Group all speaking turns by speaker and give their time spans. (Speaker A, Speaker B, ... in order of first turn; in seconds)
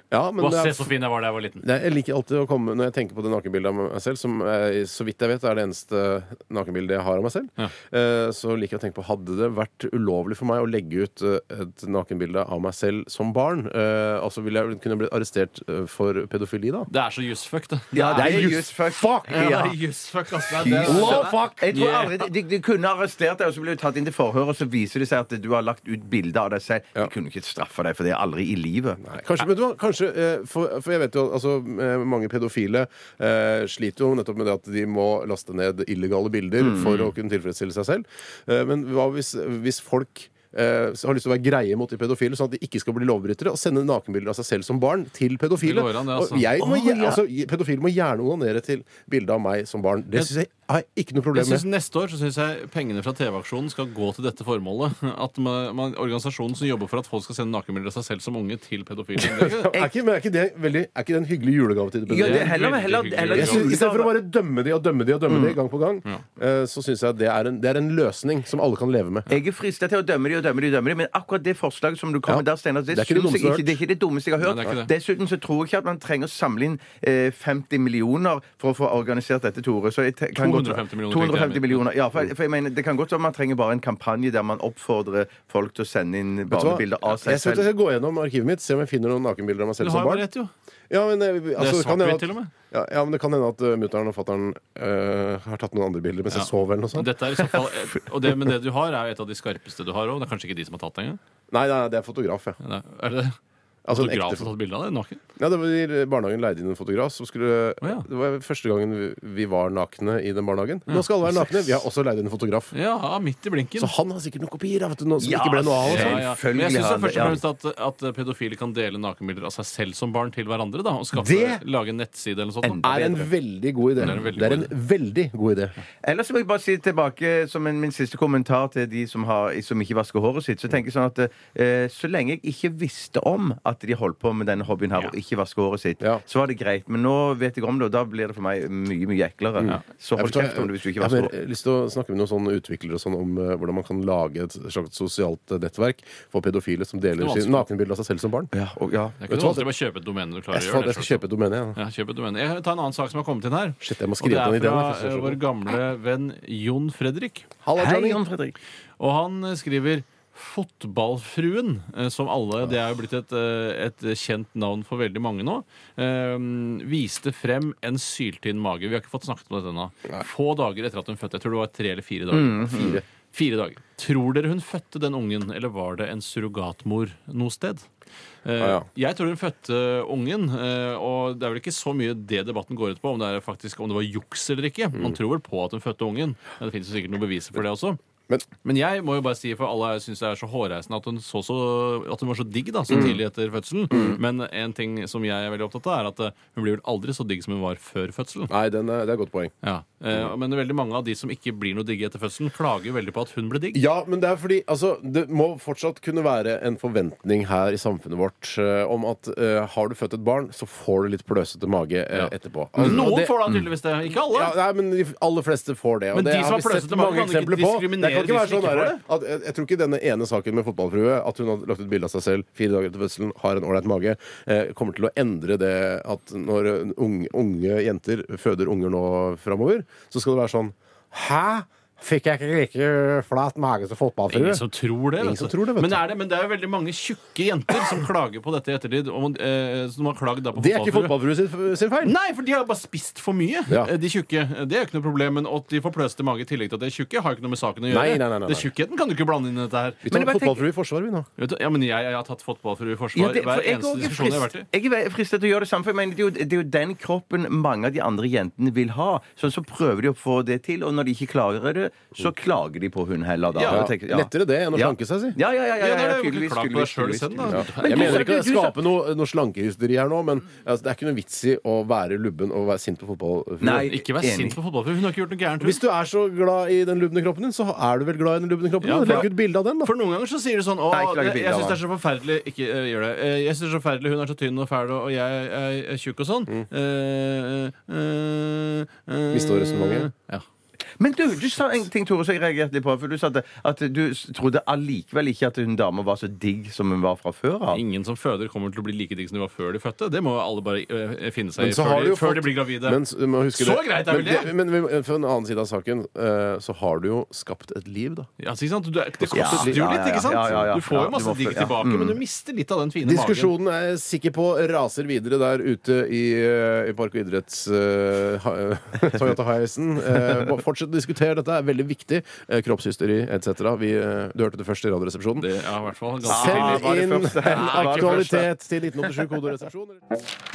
Speaker A: 0.1-1.0, 1.6-16.9, 17.9-19.4, 20.6-21.8, 29.0-51.7, 59.2-62.6, 63.3-69.3, 72.3-73.8, 86.5-90.3, 90.9-97.1, 101.5-102.6, 103.9-104.5, 105.4-112.7, 113.8-116.3, 121.1-121.6, 122.8-125.7, 139.6-148.5, 149.3-149.7, 150.5-151.8, 153.8-155.4, 157.6-158.2, 172.7-173.0, 178.6-178.9, 192.9-193.2, 193.9-194.2, 198.5-199.5, 203.7-234.7, 235.2-236.0, 240.5-242.2, 247.9-248.7, 250.1-251.3, 263.7-265.4, 267.5-273.9, 275.6-279.9, 289.3-290.1, 301.6-308.3, 309.2-309.9, 313.0-325.5, 326.2-330.0
Speaker B: 0.4-1.6, 16.9-18.6, 19.2-22.3, 45.6-46.5, 51.3-59.7, 62.1-63.8, 74.4-74.9, 80.4-81.9, 89.8-90.5, 91.6-92.5, 96.3-101.2, 102.6-103.3, 103.9-105.2, 110.9-111.8, 112.7-113.9, 115.8-122.9, 124.0-124.7, 147.2-147.7, 149.2-157.5, 159.0-177.9, 178.4-188.0, 188.6-198.5, 199.6-203.8, 212.1-214.6, 216.1-219.0, 234.3-241.2, 242.0-250.1, 251.4-254.7, 263.5-263.9, 265.8-268.3, 273.7-275.8, 278.8-290.4, 297.7-303.0, 303.5-304.5, 308.4-313.5, 325.4-328.4, 329.0-329.3
Speaker C: 17.9-19.8, 20.6-29.0, 36.6-37.1, 46.6-47.2, 62.1-64.2, 65.3-65.6, 69.3-87.7, 115.2-117.4, 122.6-123.3, 126.0-141.3, 148.5-149.2, 157.8-158.6, 172.3-173.0, 250.1-250.7, 253.1-268.8, 273.6-274.6, 280.9-281.8, 291.0-297.8, 309.3-312.2, 326.3-328.5